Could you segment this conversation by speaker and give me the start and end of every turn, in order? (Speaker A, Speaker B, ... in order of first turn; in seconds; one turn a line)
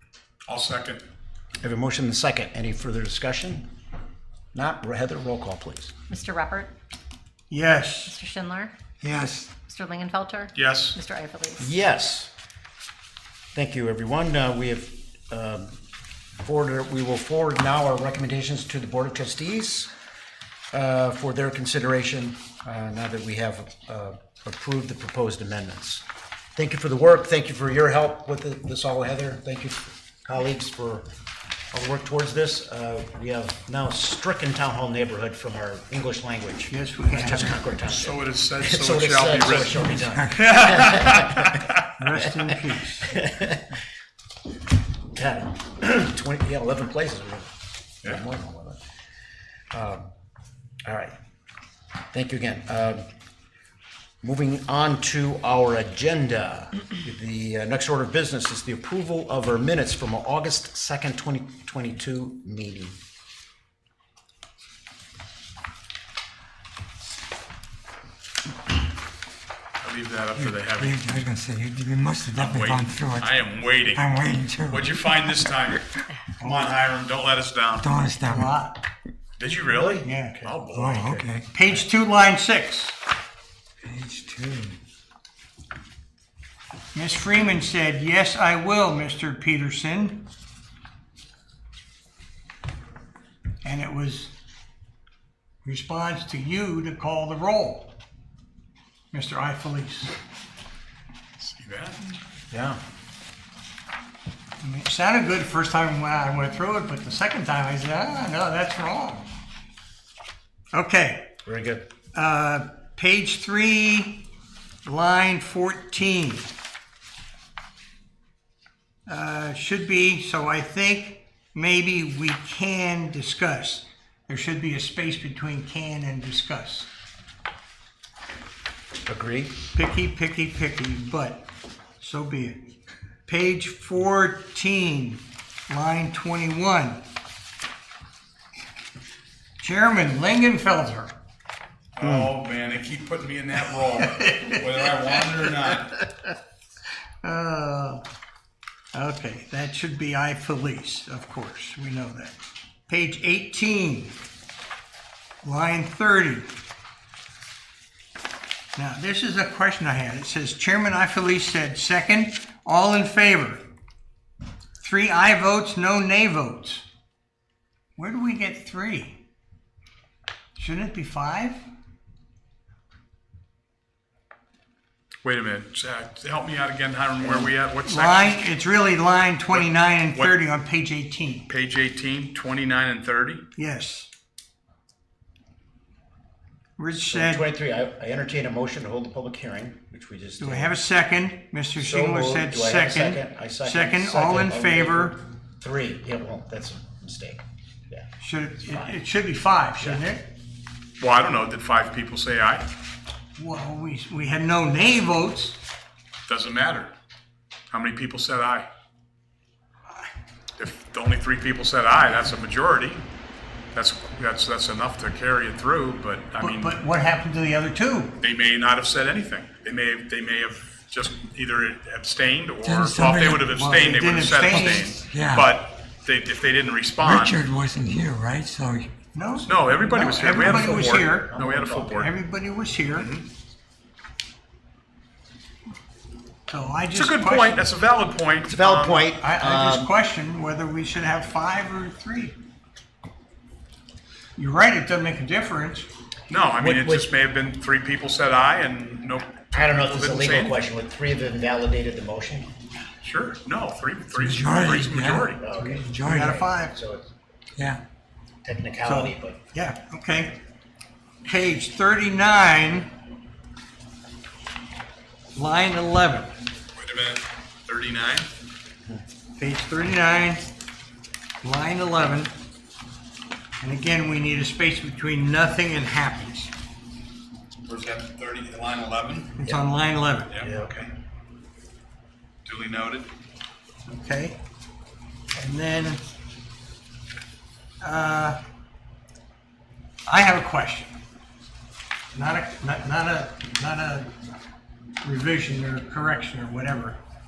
Speaker A: 0.5-1.0
Speaker B: 1.6-3.7
Speaker B: 4.5-5.9
Speaker C: 6.1-6.7
Speaker D: 7.5-8.2
Speaker C: 8.1-8.7
Speaker E: 9.0-9.5
Speaker C: 9.7-11.7
Speaker A: 10.6-11.0
Speaker B: 11.6-12.3
Speaker B: 13.5-15.8
Speaker B: 16.4-19.9
Speaker B: 20.7-26.0
Speaker B: 26.6-31.1
Speaker B: 31.7-41.6
Speaker D: 36.7-37.6
Speaker A: 37.8-39.8
Speaker E: 39.7-40.8
Speaker A: 40.4-41.8
Speaker D: 42.0-43.2
Speaker B: 42.2-42.5
Speaker B: 43.1-43.6
Speaker B: 45.1-47.5
Speaker B: 48.0-48.8
Speaker B: 49.7-50.1
Speaker B: 50.9-51.1
Speaker B: 52.1-53.0
Speaker B: 54.2-63.0
Speaker A: 69.8-71.0
Speaker E: 70.4-75.5
Speaker A: 72.3-74.1
Speaker A: 74.7-75.9
Speaker D: 76.4-76.8
Speaker A: 76.4-77.9
Speaker E: 77.8-78.5
Speaker D: 78.2-78.8
Speaker A: 79.4-81.2
Speaker B: 79.7-80.6
Speaker D: 80.0-80.4
Speaker E: 80.7-81.5
Speaker D: 81.5-83.0
Speaker E: 83.8-84.8
Speaker D: 86.9-90.3
Speaker D: 93.6-94.3
Speaker D: 95.6-98.0
Speaker D: 99.1-100.2
Speaker A: 101.4-102.1
Speaker B: 102.5-102.8
Speaker D: 104.6-109.3
Speaker D: 110.7-111.3
Speaker B: 111.5-111.8
Speaker D: 112.1-114.3
Speaker D: 114.8-116.5
Speaker D: 119.1-126.9
Speaker B: 129.1-129.6
Speaker D: 129.7-131.5
Speaker D: 132.0-132.7
Speaker D: 133.3-137.0
Speaker D: 139.6-141.2
Speaker A: 142.0-146.0
Speaker B: 142.0-142.3
Speaker D: 143.8-146.3
Speaker D: 147.2-148.0
Speaker D: 148.9-152.4
Speaker D: 152.9-154.2
Speaker D: 155.4-156.5
Speaker D: 158.8-163.7
Speaker D: 164.8-166.8
Speaker D: 168.0-169.2
Speaker D: 170.6-171.6
Speaker A: 175.2-178.5
Speaker D: 177.2-181.5
Speaker A: 179.5-180.3
Speaker A: 181.5-183.4
Speaker D: 183.6-184.1
Speaker D: 186.8-187.5
Speaker B: 187.1-190.7
Speaker D: 190.4-195.2
Speaker B: 191.8-198.1
Speaker D: 198.2-200.3
Speaker B: 198.7-199.0
Speaker A: 201.0-202.7
Speaker D: 203.4-205.6
Speaker A: 206.3-206.9
Speaker A: 207.7-208.7
Speaker A: 210.6-213.0
Speaker A: 213.8-216.8
Speaker D: 216.4-218.2
Speaker A: 218.2-227.4
Speaker E: 222.6-223.7
Speaker D: 223.5-224.9
Speaker E: 224.5-225.5
Speaker E: 227.0-228.9
Speaker D: 229.1-231.4
Speaker A: 229.4-232.1
Speaker B: 230.2-232.0
Speaker D: 231.9-233.1
Speaker A: 233.0-233.2
Speaker D: 236.5-237.7
Speaker A: 236.9-239.1
Speaker B: 238.5-239.9
Speaker D: 239.2-242.4
Speaker D: 244.4-245.9
Speaker A: 246.3-250.6
Speaker B: 246.3-247.1
Speaker B: 249.5-252.5
Speaker A: 253.0-255.4
Speaker E: 254.1-256.5
Speaker B: 255.4-257.1
Speaker D: 256.0-256.8
Speaker B: 258.4-259.4
Speaker D: 258.8-260.4
Speaker D: 261.2-262.9
Speaker D: 265.3-266.3
Speaker A: 266.8-268.3
Speaker D: 269.4-270.5
Speaker D: 271.4-272.3
Speaker D: 273.6-276.5
Speaker A: 277.7-279.4
Speaker D: 279.4-280.3
Speaker B: 280.4-280.9
Speaker A: 282.4-283.1
Speaker D: 283.9-284.4
Speaker D: 285.4-286.0
Speaker D: 287.8-288.4
Speaker D: 290.1-291.0
Speaker D: 292.1-294.1
Speaker D: 295.0-297.0